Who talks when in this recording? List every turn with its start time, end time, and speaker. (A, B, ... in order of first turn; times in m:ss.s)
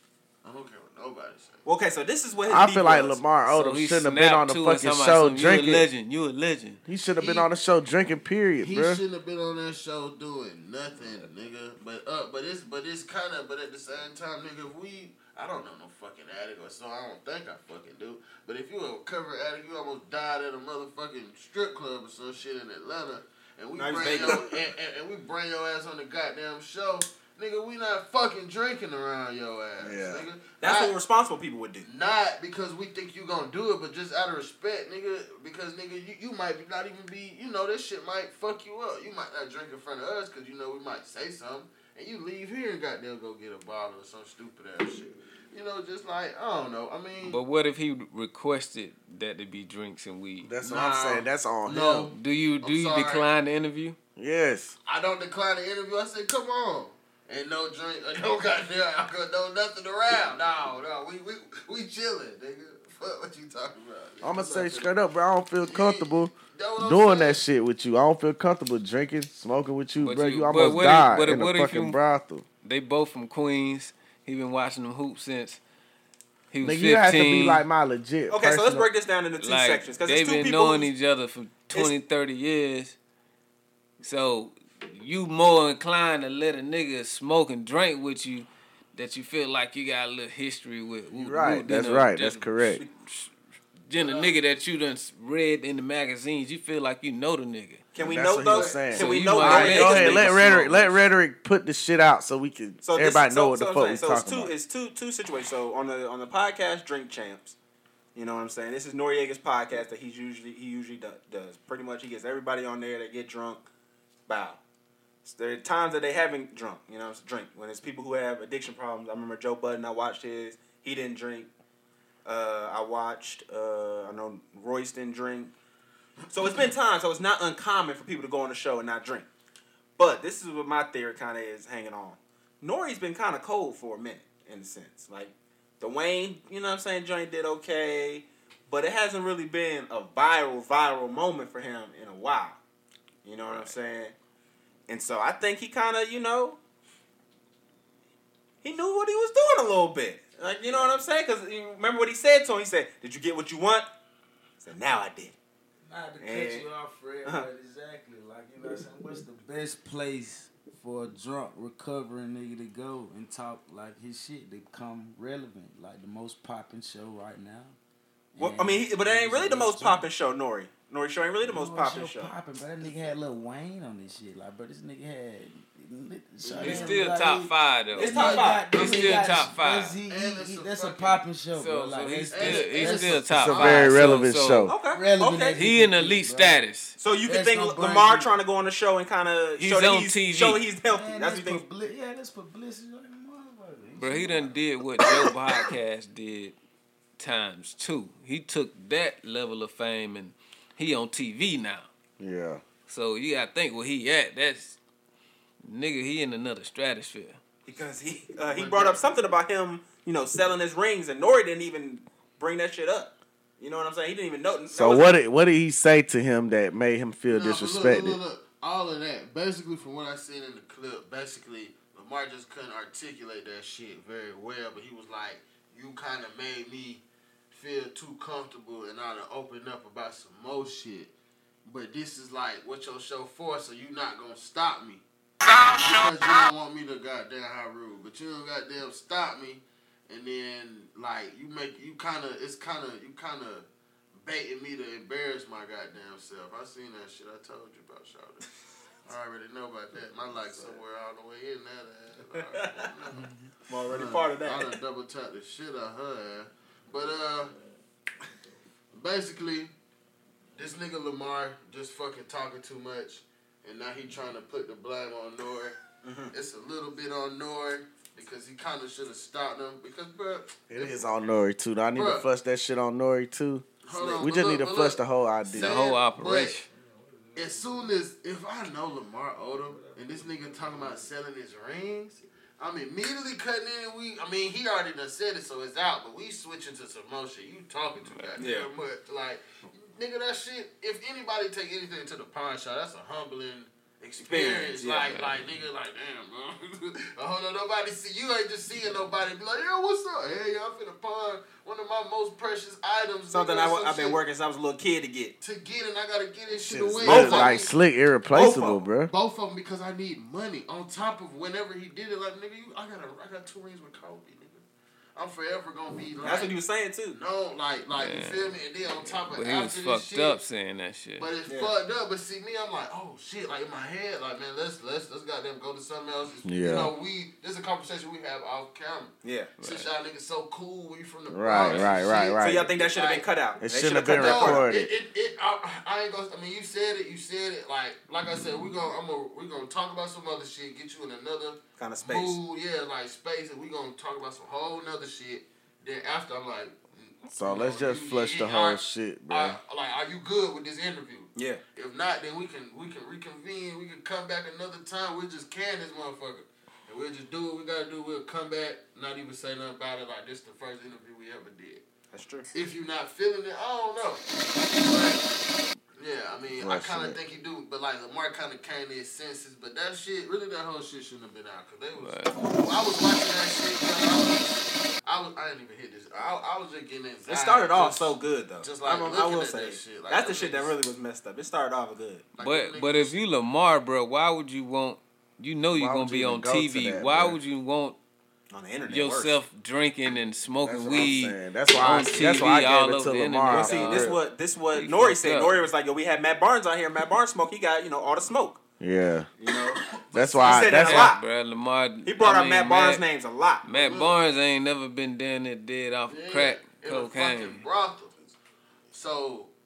0:00.4-0:01.6 A
0:01.6-0:03.2 B
0:02.5-0:05.9 C
0:03.5-0:06.8 D
0:06.9-0:09.0 C
0:07.2-0:07.5 A
0:08.6-0:31.0 A
0:23.8-0:24.5 B
0:29.8-0:30.3 C
0:30.6-0:31.9 B
0:31.8-0:47.4 A
0:47.2-0:50.6 D
0:50.4-0:52.1 C
0:50.6-0:53.3 A
0:52.1-0:54.0 D
0:54.2-0:54.8 C
0:54.9-1:04.9 A
1:04.2-1:12.4 C
1:05.6-1:07.4 A
1:10.0-1:12.0 D
1:12.6-1:15.6 D
1:16.5-1:17.6 D
1:16.6-1:18.9 C
1:18.3-1:20.9 B
1:19.4-1:23.0 D
1:24.0-1:33.3 D
1:31.1-1:32.8 C
1:33.9-1:37.8 D
1:34.0-1:34.4 A
1:38.0-1:40.6 B
1:38.0-1:44.5 C
1:38.5-1:38.8 A
1:38.9-1:41.0 D
1:42.8-1:47.6 B
1:48.1-1:53.6 B
1:54.3-1:54.6 B
1:55.2-2:01.5 B
2:02.2-2:05.5 B
2:06.3-2:09.3 B
2:10.0-2:22.6 B
2:23.2-2:24.1 B
2:24.9-2:26.6 B
2:28.6-2:33.9 B
2:34.6-2:35.4 B
2:35.8-2:47.8 E
2:36.2-2:36.6 B
2:48.3-2:50.1 E
2:48.4-2:52.3 B
2:51.4-3:03.7 E
2:56.5-2:57.0 A
2:56.6-3:00.0 D
2:58.0-2:59.1 B
2:58.4-2:59.3 A
3:00.0-3:01.2 A
3:01.5-3:04.8 D
3:02.3-3:04.0 A
3:03.3-3:04.7 C
3:04.7-3:05.6 B
3:04.9-3:06.6 E
3:05.5-3:07.0 D
3:07.0-3:11.6 B
3:07.2-3:08.3 E
3:09.6-3:10.6 D
3:10.8-3:14.6 E
3:14.0-3:16.6 D
3:17.2-3:21.9 D
3:22.2-3:22.6 C
3:22.9-3:24.8 D
3:25.6-3:27.4 D
3:27.6-3:35.2 B
3:28.5-3:29.0 A
3:34.7-3:38.2 C
3:37.3-3:51.1 A
3:51.6-3:55.0 A
3:55.7-4:08.5 A
4:09.0-4:13.3 A
4:12.4-4:14.8 B
4:13.9-4:17.5 A
4:18.9-4:19.7 A
4:20.6-4:25.8 A
4:26.0-4:26.3 B
4:26.3-4:31.1 A
4:30.7-4:35.8 C
4:32.0-4:32.3 A
4:33.8-4:36.6 A
4:35.5-4:36.7 D
4:36.7-4:38.0 E
4:37.4-5:04.2 A
4:39.3-4:41.1 E
4:48.0-4:48.5 D
4:48.4-4:48.7 B
4:54.2-4:55.2 B
4:54.9-4:55.6 D
5:03.3-5:05.4 B
5:05.4-5:07.7 A
5:06.5-5:09.1 C
5:07.0-5:07.6 B
5:08.3-5:08.8 B
5:09.1-5:14.6 A
5:15.2-5:16.6 A
5:16.2-5:17.2 B
5:17.1-5:20.4 A
5:17.9-5:21.3 D
5:21.2-5:33.3 A
5:21.5-5:21.7 B
5:26.4-5:26.9 C
5:29.2-5:29.5 B
5:29.6-5:29.9 D
5:31.3-5:32.7 C
5:31.5-5:34.6 B
5:33.6-5:34.9 C
5:34.1-6:01.8 A
5:41.8-5:42.4 B
5:47.3-5:49.6 C
5:51.4-5:51.6 B
6:02.1-6:02.5 B
6:02.5-6:05.3 A
6:06.0-6:20.8 A
6:06.6-6:07.2 C
6:12.0-6:12.4 D
6:17.3-6:22.3 B
6:22.4-6:23.2 A
6:22.4-6:28.0 D
6:25.7-6:27.4 C
6:28.5-6:29.4 B
6:28.9-6:34.2 D
6:30.6-6:34.2 C
6:33.5-6:38.6 B
6:34.8-6:35.6 D
6:38.8-6:39.3 C
6:39.4-6:39.8 B
6:40.0-6:40.8 A
6:40.1-6:41.1 C
6:40.4-6:41.2 B
6:40.7-6:43.0 D
6:42.0-6:43.6 B
6:43.6-6:47.6 D
6:43.7-6:44.2 A
6:46.1-6:48.2 A
6:48.9-6:49.5 A